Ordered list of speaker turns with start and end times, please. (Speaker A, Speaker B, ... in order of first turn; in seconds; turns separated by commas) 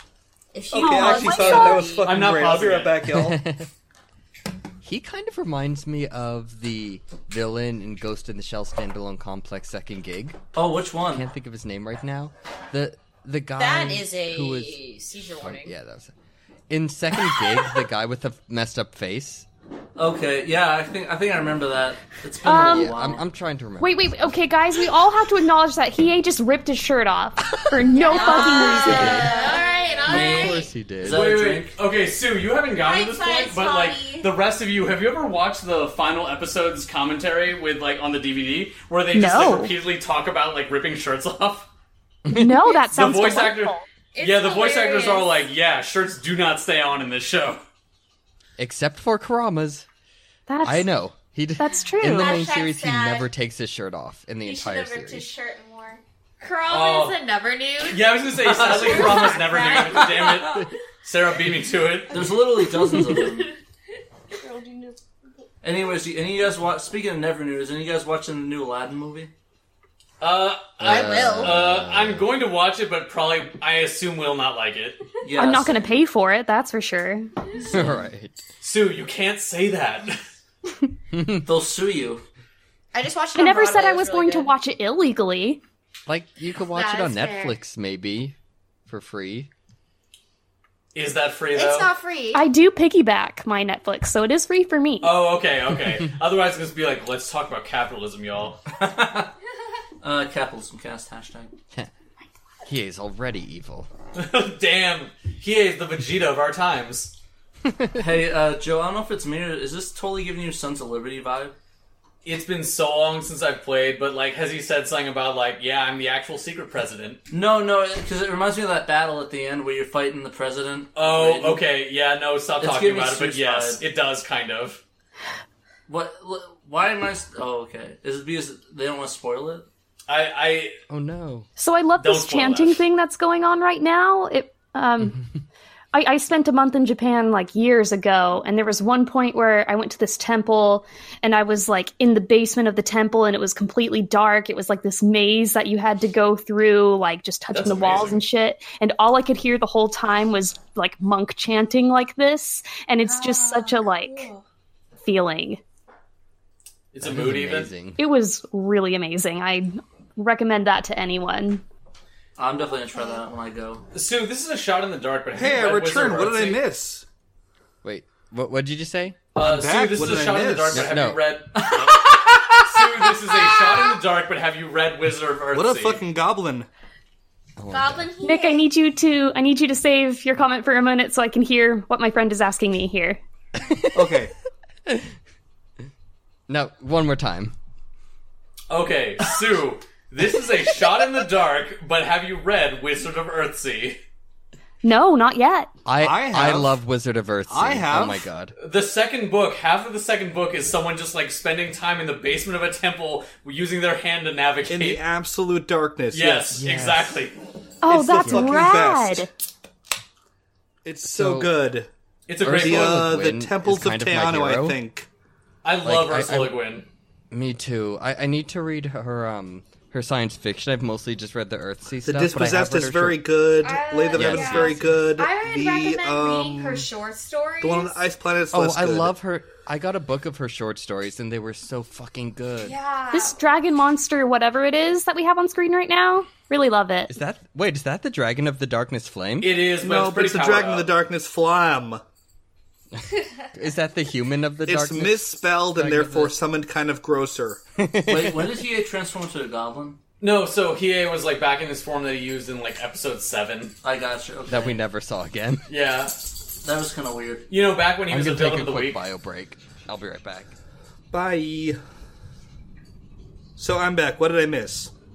Speaker A: 0.5-2.1, Speaker B: 0.7-3.4, Speaker C: 0.8-1.8, Speaker D: 1.4-3.0, Speaker E: 3.1-3.7, Speaker E: 4.8-10.4, Speaker F: 10.5-11.3, Speaker E: 11.1-14.8, Speaker A: 13.6-15.7, Speaker E: 15.4-16.1, Speaker E: 16.7-19.4, Speaker F: 19.9-23.2, Speaker G: 22.4-23.0, Speaker E: 22.5-24.4, Speaker G: 23.8-29.3, Speaker A: 27.9-30.0, Speaker C: 28.1-30.7, Speaker E: 28.8-29.3, Speaker E: 30.1-31.3, Speaker F: 30.1-31.7, Speaker D: 31.0-41.7, Speaker A: 32.8-34.3, Speaker G: 39.1-39.7, Speaker E: 42.2-42.8, Speaker G: 42.3-43.8, Speaker D: 42.9-47.6, Speaker C: 44.1-45.3, Speaker E: 48.6-49.9, Speaker G: 50.5-51.0, Speaker E: 50.6-55.3, Speaker G: 51.6-52.4, Speaker A: 52.0-53.3, Speaker C: 54.4-60.3, Speaker D: 56.7-57.2, Speaker D: 57.8-62.3, Speaker F: 58.3-60.6, Speaker F: 62.1-63.5, Speaker C: 63.0-63.5, Speaker C: 64.4-65.0, Speaker F: 65.6-69.3, Speaker D: 70.2-75.0, Speaker E: 70.8-72.2, Speaker A: 70.8-71.6, Speaker F: 75.2-75.9, Speaker G: 75.3-77.3, Speaker E: 77.7-78.4, Speaker D: 78.6-80.2, Speaker E: 81.1-81.5, Speaker F: 81.4-82.2, Speaker A: 82.9-84.5, Speaker G: 83.3-85.6, Speaker E: 86.1-88.3, Speaker C: 86.6-87.6, Speaker E: 88.9-89.5, Speaker D: 90.9-91.9, Speaker A: 91.5-92.4, Speaker G: 92.3-95.2, Speaker D: 95.0-98.6, Speaker F: 98.7-99.3, Speaker F: 100.0-101.5, Speaker E: 102.7-103.9, Speaker D: 104.1-107.1, Speaker E: 107.7-108.0, Speaker F: 108.0-111.5, Speaker D: 112.2-117.2, Speaker F: 117.3-121.6, Speaker D: 120.9-124.8, Speaker F: 122.6-123.8, Speaker F: 125.9-129.7, Speaker D: 130.1-130.8, Speaker E: 130.9-131.5, Speaker G: 131.6-135.2, Speaker D: 131.9-132.8, Speaker G: 135.9-154.3, Speaker D: 147.5-148.2, Speaker C: 153.0-154.4, Speaker G: 155.0-155.6, Speaker D: 156.9-157.7, Speaker E: 157.0-158.0, Speaker G: 158.0-161.6, Speaker F: 162.4-163.8, Speaker D: 163.9-166.6, Speaker B: 165.3-167.1, Speaker E: 167.8-169.2, Speaker D: 169.3-176.0, Speaker B: 169.3-170.9, Speaker E: 170.7-171.3, Speaker F: 171.6-171.9, Speaker B: 175.5-176.7, Speaker E: 177.6-178.1, Speaker C: 177.7-178.7, Speaker G: 178.2-183.2, Speaker E: 183.6-184.2, Speaker B: 183.9-184.3, Speaker E: 184.9-185.1, Speaker E: 186.5-187.5, Speaker D: 188.7-194.0, Speaker G: 194.8-195.7, Speaker E: 195.8-198.5, Speaker B: 196.0-196.8, Speaker B: 197.5-198.2, Speaker D: 198.6-205.0, Speaker B: 204.7-206.6, Speaker D: 206.1-207.3, Speaker E: 206.5-207.2, Speaker G: 207.8-209.3, Speaker B: 207.8-209.3, Speaker E: 208.2-208.6, Speaker B: 210.8-211.9, Speaker E: 211.0-211.5, Speaker D: 212.3-213.1, Speaker E: 212.4-214.8, Speaker B: 212.4-215.1, Speaker D: 215.6-216.9, Speaker E: 215.8-216.6, Speaker E: 217.3-223.2, Speaker B: 222.0-226.9, Speaker C: 223.6-227.9, Speaker E: 224.1-225.1, Speaker B: 227.6-229.1, Speaker E: 228.5-232.8, Speaker C: 232.6-233.4, Speaker G: 233.1-237.2, Speaker E: 237.1-239.6, Speaker D: 239.4-240.9, Speaker B: 239.8-242.0, Speaker E: 242.9-246.3, Speaker B: 244.7-247.6, Speaker E: 247.8-248.6, Speaker F: 248.1-250.0, Speaker D: 250.2-253.7, Speaker F: 253.8-254.8, Speaker E: 254.5-255.7, Speaker D: 255.7-256.1, Speaker F: 256.6-257.4, Speaker D: 257.5-259.0, Speaker E: 258.1-260.5, Speaker B: 261.1-261.8, Speaker B: 263.6-264.9